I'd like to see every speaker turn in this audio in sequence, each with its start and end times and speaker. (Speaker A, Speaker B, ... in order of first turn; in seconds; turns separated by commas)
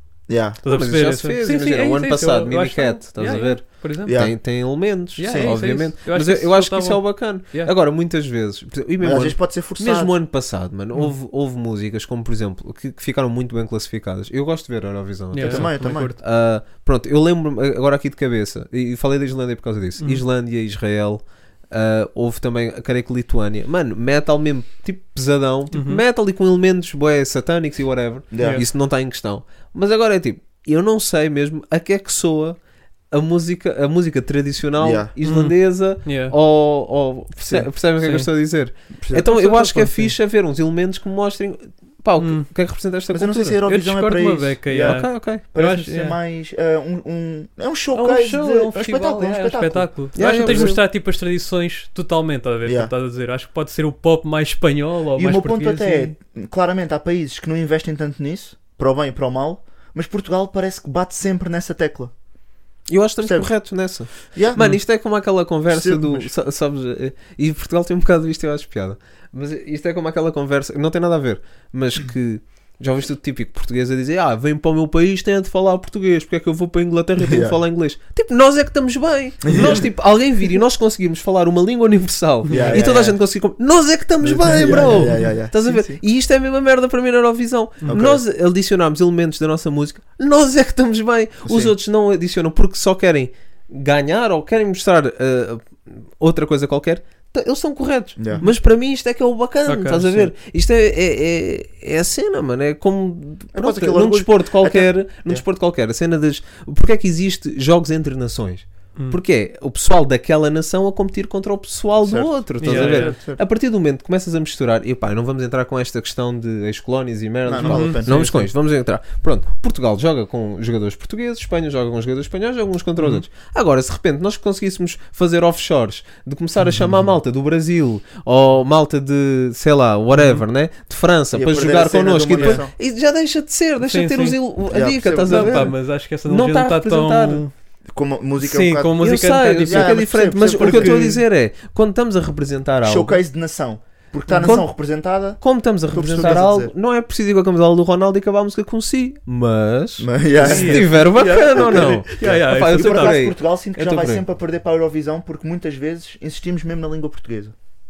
Speaker A: 0.3-0.6, Speaker B: 0.6-4.5, Speaker C: 0.7-43.6, Speaker A: 4.0-5.6, Speaker B: 5.2-7.7, Speaker A: 9.0-10.2, Speaker B: 15.3-16.2, Speaker A: 15.4-16.1, Speaker B: 20.0-20.2, Speaker B: 25.7-26.0, Speaker A: 28.3-28.6, Speaker B: 28.4-28.7, Speaker A: 34.8-35.1, Speaker B: 35.2-36.4, Speaker A: 37.4-37.7, Speaker B: 38.0-40.2, Speaker A: 38.9-39.3, Speaker B: 42.2-42.5, Speaker A: 43.1-50.8, Speaker B: 43.7-46.2, Speaker C: 44.8-45.4, Speaker B: 47.9-56.2, Speaker C: 50.1-50.8, Speaker A: 52.6-52.9, Speaker A: 55.1-62.1, Speaker C: 62.9-137.4, Speaker A: 63.2-64.8, Speaker A: 65.7-66.3, Speaker A: 77.2-77.6, Speaker A: 79.4-79.9, Speaker B: 79.5-79.9, Speaker B: 82.5-82.8, Speaker A: 82.5-83.2, Speaker A: 84.2-86.0, Speaker A: 87.9-88.2, Speaker A: 91.5-91.7, Speaker A: 98.2-98.5, Speaker B: 99.7-100.3, Speaker A: 103.5-105.4, Speaker A: 112.0-113.4, Speaker B: 112.6-113.2, Speaker A: 117.5-118.4, Speaker B: 117.6-118.5, Speaker B: 123.0-123.2, Speaker B: 130.1-130.4, Speaker A: 131.3-132.7, Speaker B: 132.3-132.6, Speaker B: 133.8-134.5, Speaker A: 134.7-135.8, Speaker B: 135.2-137.5, Speaker A: 137.9-141.2, Speaker B: 138.4-141.1, Speaker C: 139.0-143.2, Speaker A: 142.8-146.7, Speaker B: 144.3-144.6, Speaker C: 144.4-154.2, Speaker A: 150.0-157.5, Speaker B: 150.4-153.3